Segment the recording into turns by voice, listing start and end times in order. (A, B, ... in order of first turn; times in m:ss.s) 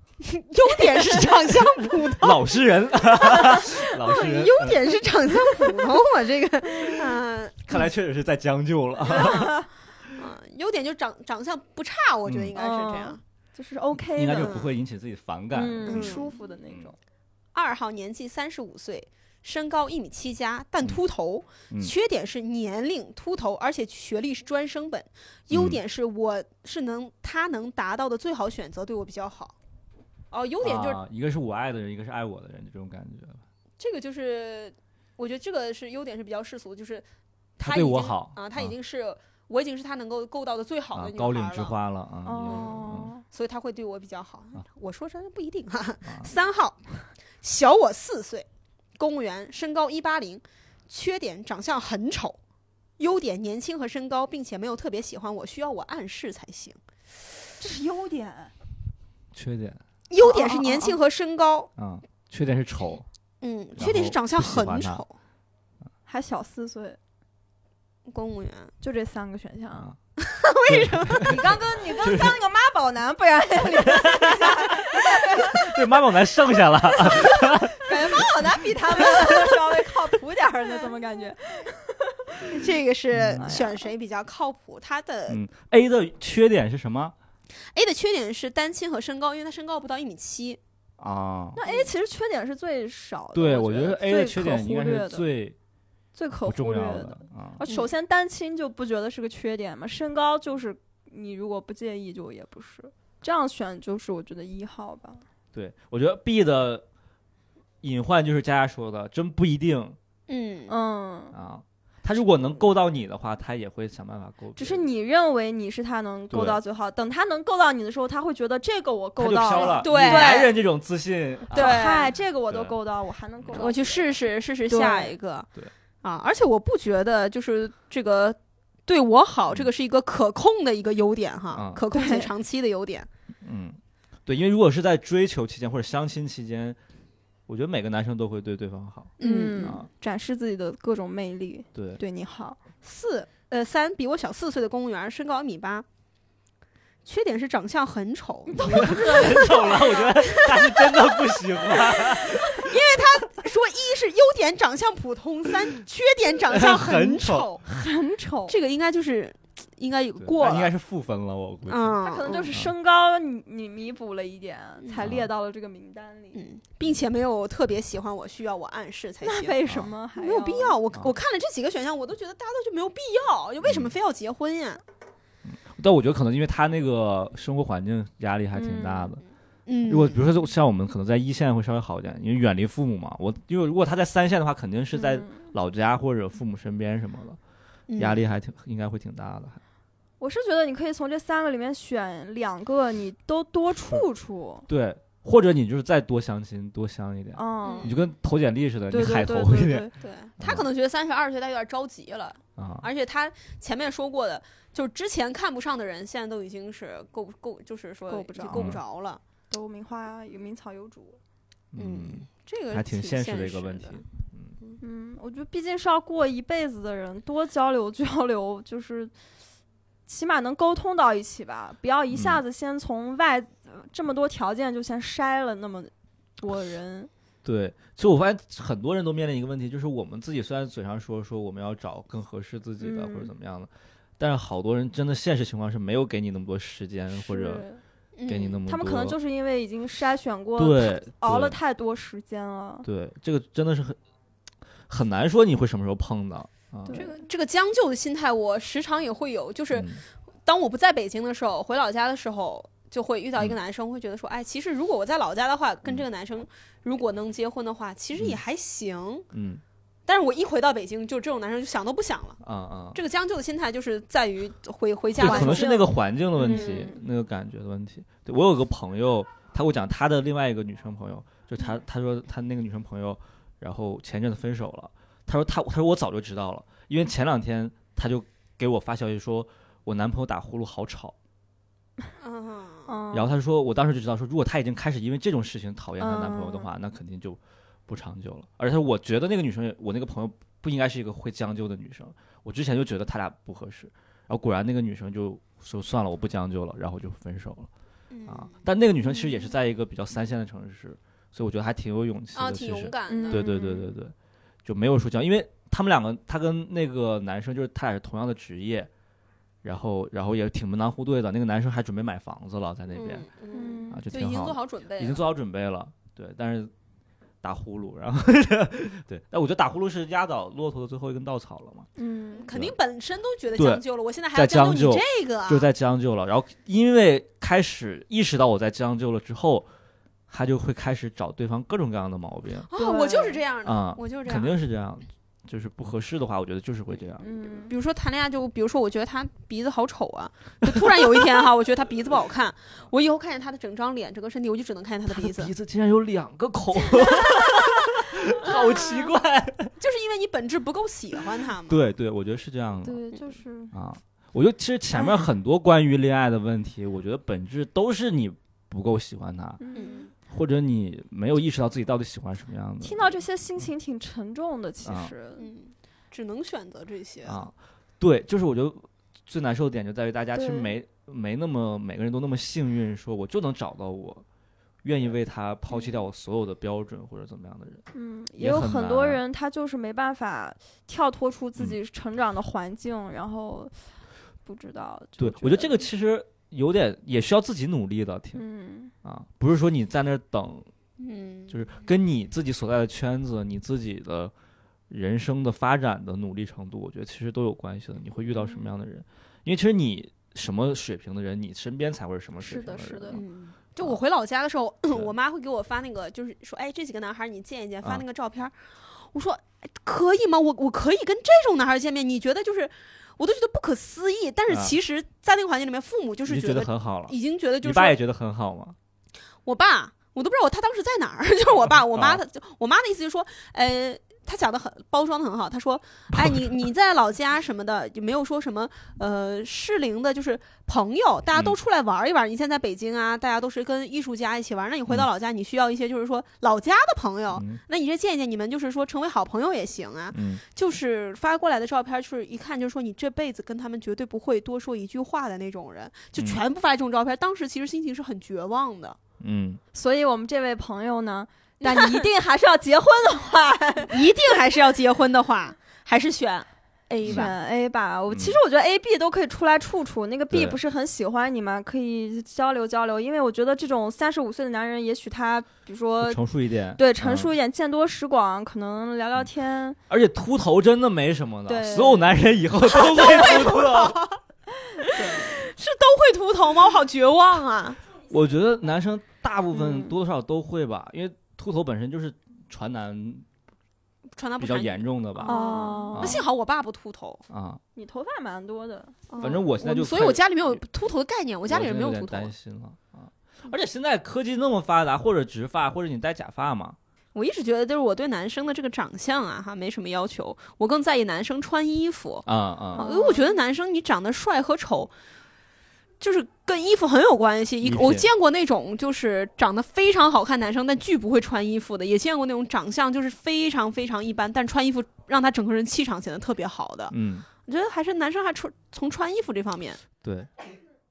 0:00.2-0:02.5 A
0:01.1-0:04.8 B
0:03.1-0:07.8 A
0:07.7-0:09.6 B
0:09.1-0:09.7 C
0:09.1-0:09.5 A
0:10.1-0:13.2 A
0:12.3-0:12.6 B
0:12.6-0:14.6 C
0:14.0-0:16.9 B
0:14.4-0:14.7 A
0:15.5-0:17.0 C
0:15.9-0:16.4 A
0:17.6-0:29.6 A
0:25.5-0:25.8 B
0:30.3-0:31.0 A
0:30.6-0:33.4 B
0:33.8-0:37.0 A
0:37.6-0:41.8 A
0:37.6-0:38.7 B
0:40.9-0:43.1 B
0:42.2-0:43.2 C
0:42.4-0:46.8 A
0:47.4-0:48.5 A
0:49.0-0:52.4 A
0:53.0-0:56.8 A
0:57.6-0:58.5 C
0:59.3-0:59.8 B
1:00.1-1:01.7 A
1:00.2-1:01.0 C
1:01.8-1:03.0 B
1:03.4-1:05.1 A
1:03.8-1:05.0 B
1:06.1-1:07.0 C
1:08.1-1:08.7 A
1:08.8-1:09.9 C
1:10.2-1:11.5 A
1:10.7-1:12.4 B
1:11.2-1:15.7 C
1:13.7-1:18.5 B
1:17.0-1:22.7 C
1:19.1-1:19.4 A
1:22.4-1:25.4 A
1:23.1-1:23.5 B
1:23.4-1:23.9 C
1:25.3-1:27.1 B
1:27.7-1:30.6 A
1:31.0-1:31.6 B
1:31.6-1:35.3 C
1:31.6-1:31.9 A
1:33.3-1:35.6 B
1:36.2-1:45.2 C
1:36.4-1:37.6 B
1:45.5-1:46.8 B
1:47.8-1:50.0 B
1:50.3-1:50.8 A
1:50.7-1:51.4 C
1:51.3-1:54.8 B
1:54.6-2:00.5 C
1:56.3-1:56.6 B
1:59.2-2:02.7 B
1:59.5-2:00.6 A
2:01.5-2:04.2 C
2:01.5-2:02.2 A
2:03.5-2:05.5 A
2:04.7-2:05.2 C
2:06.0-2:13.1 A
2:11.5-2:11.8 B
2:11.9-2:12.3 C
2:13.4-2:16.8 B
2:17.5-2:19.9 B
2:19.2-2:19.8 A
2:19.2-2:22.6 C
2:21.8-2:22.0 B
2:22.8-2:25.9 A
2:27.1-2:37.6 A
2:28.5-2:29.8 C
2:28.6-2:33.0 B
2:36.5-2:37.6 B
2:37.7-2:38.6 C
2:38.5-2:40.7 A
2:40.2-2:42.7 B
2:41.7-2:42.5 A
2:42.0-2:46.4 C
2:44.8-2:45.1 A
2:45.0-2:45.3 B
2:46.3-2:49.6 A
2:49.2-2:50.8 C
2:50.2-2:54.8 A
2:53.6-2:53.9 B
2:55.5-2:59.2 B
2:58.6-2:59.2 C
2:59.7-3:00.3 A
2:59.9-3:07.4 B
3:05.0-3:05.2 C
3:07.9-3:08.3 A
3:08.0-3:09.6 B
3:10.2-3:14.7 C
3:14.7-3:19.9 B
3:17.4-3:17.9 C
3:17.6-3:18.0 A
3:18.9-3:19.9 C
3:20.0-3:29.2 A
3:20.4-3:20.7 B
3:22.6-3:22.9 B
3:28.1-3:28.7 C
3:28.5-3:28.8 B
3:29.5-3:31.2 C
3:31.7-3:34.5 B
3:31.8-3:34.0 A
3:34.8-3:39.1 C
3:40.1-3:47.1 C
3:42.1-3:42.4 B
3:47.4-3:57.6 B
3:52.8-3:53.3 C
3:57.1-3:57.8 C
3:58.2-3:58.6 A
3:58.3-3:59.2 B
3:58.7-4:02.9 C
4:00.6-4:01.6 B
4:02.8-4:04.0 B
4:04.9-4:07.0 B
4:06.9-4:07.2 C
4:06.9-4:09.9 A
4:09.7-4:10.0 B
4:10.5-4:19.3 A
4:18.2-4:18.4 B
4:19.3-4:19.6 B
4:20.1-4:22.4 A
4:22.4-4:23.0 B
4:22.9-4:25.8 A
4:25.2-4:41.2 B
4:25.2-4:27.0 C
4:26.4-4:26.9 A
4:42.2-4:42.9 A
4:42.9-4:43.3 C
4:43.1-4:57.7 B
4:46.0-4:46.7 C
4:58.1-4:58.5 A
4:58.3-5:08.9 B
5:02.4-5:03.5 A
5:03.1-5:03.9 C
5:09.6-5:13.3 B
5:12.9-5:15.2 A
5:13.5-5:14.0 C
5:13.9-5:16.7 B
5:17.4-5:21.9 B
5:22.0-5:22.5 C
5:22.4-5:25.7 A
5:23.6-5:23.8 B
5:24.3-5:29.7 B
5:30.3-5:32.7 B
5:32.7-5:34.6 A
5:32.8-5:33.4 C
5:33.6-5:37.3 B
5:37.2-5:37.7 C
5:37.6-5:45.5 A
5:45.1-5:49.7 B
5:48.4-5:49.2 A
5:49.8-5:51.8 A
5:51.7-5:53.0 B
5:52.8-5:53.7 C
5:53.7-5:59.6 B
5:59.6-6:00.1 C
5:59.8-6:00.1 A
6:00.3-6:03.2 B
6:02.8-6:05.5 C
6:04.8-6:05.1 B
6:05.4-6:07.4 A
6:07.2-6:14.2 B
6:10.4-6:10.7 C
6:14.8-6:17.8 B
6:17.9-6:23.7 C
6:18.4-6:19.2 B
6:24.5-6:25.8 C
6:25.2-6:28.4 B
6:28.4-6:28.9 C
6:29.0-6:30.7 B
6:31.0-6:31.6 A
6:31.5-6:34.3 B
6:34.9-6:43.2 B
6:42.4-6:43.2 C
6:43.1-6:58.0 A
6:54.5-6:54.8 B
6:56.3-6:58.8 B
6:59.5-7:29.0 A
7:01.9-7:02.2 B
7:06.1-7:06.6 B
7:17.3-7:17.6 B
7:20.1-7:20.4 B
7:26.2-7:26.4 B
7:29.2-7:29.6 B
7:29.7-7:34.3 C
7:31.6-7:32.1 A
7:33.9-7:37.3 A
7:37.0-7:37.3 B
7:37.0-7:46.2 C
7:38.1-7:38.4 B
7:40.3-7:40.6 B
7:46.0-7:47.3 B
7:46.8-7:49.8 C
7:49.9-7:54.0 B
7:51.5-7:52.1 C
7:52.7-7:54.2 A
7:54.8-7:57.8 A
7:58.1-8:03.3 B
7:59.6-7:59.9 C
8:04.2-8:07.2 A
8:04.4-8:05.4 B
8:05.3-8:06.2 C
8:05.9-8:06.3 B
8:07.3-8:07.6 B
8:07.8-8:09.4 C
8:09.1-8:12.3 A
8:09.2-8:10.6 B
8:11.5-8:16.8 B
8:17.2-8:24.9 A
8:22.3-8:22.9 B
8:22.8-8:23.3 C
8:26.0-8:36.9 A
8:27.6-8:28.1 B
8:36.9-8:37.3 B
8:37.5-8:39.8 A
8:40.0-8:40.3 B